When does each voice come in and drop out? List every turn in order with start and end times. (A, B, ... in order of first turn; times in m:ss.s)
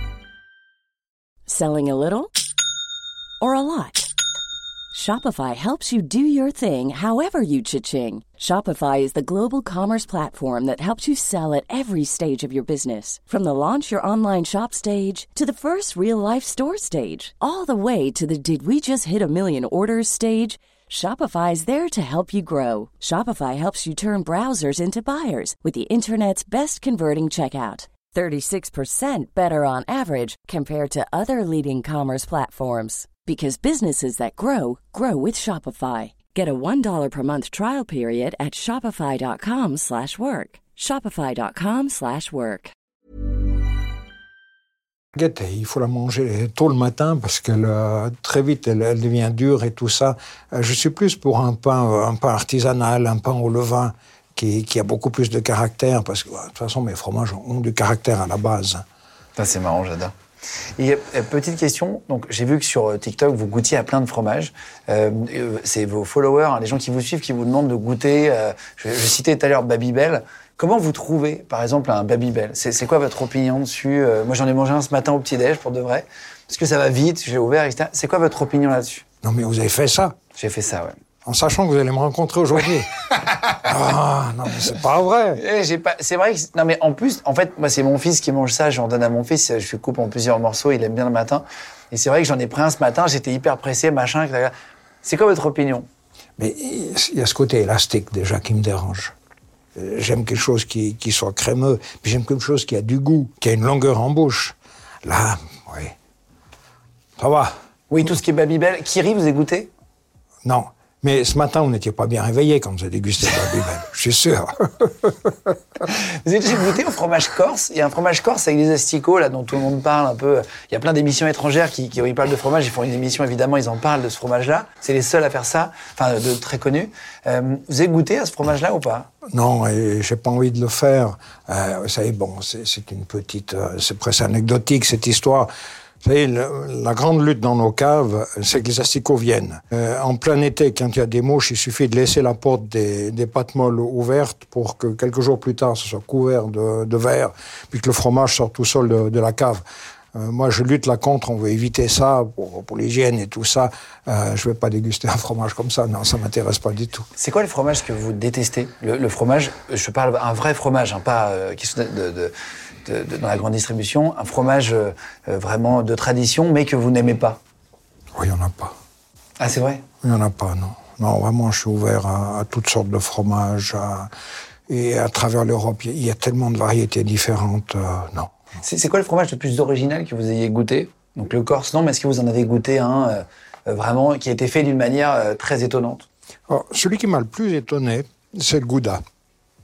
0:01.5-0:02.3 A
0:03.4-0:04.1 A
0:04.9-0:42.7 A
0:45.1-0:58.8 B
0:59.4-1:00.1 C
1:00.8-1:19.0 C
1:19.2-1:20.2 B
1:20.3-1:21.0 C
1:21.2-1:22.9 B
1:23.2-1:23.6 C
1:23.5-1:25.4 B
1:25.4-1:35.9 C
1:36.4-1:39.1 B
1:39.7-1:45.9 B
1:47.2-1:47.5 B
1:47.9-1:49.7 C
1:50.4-1:55.6 B
1:55.9-2:09.1 C
2:09.2-2:15.5 B
2:16.0-2:29.6 B
2:30.1-2:37.1 B
2:37.2-2:42.3 C
2:42.8-2:47.4 C
2:48.1-2:48.8 B
2:49.4-2:49.8 C
2:50.0-2:54.1 B
2:54.7-2:58.3 B
2:58.6-3:06.1 C
3:06.5-3:09.0 B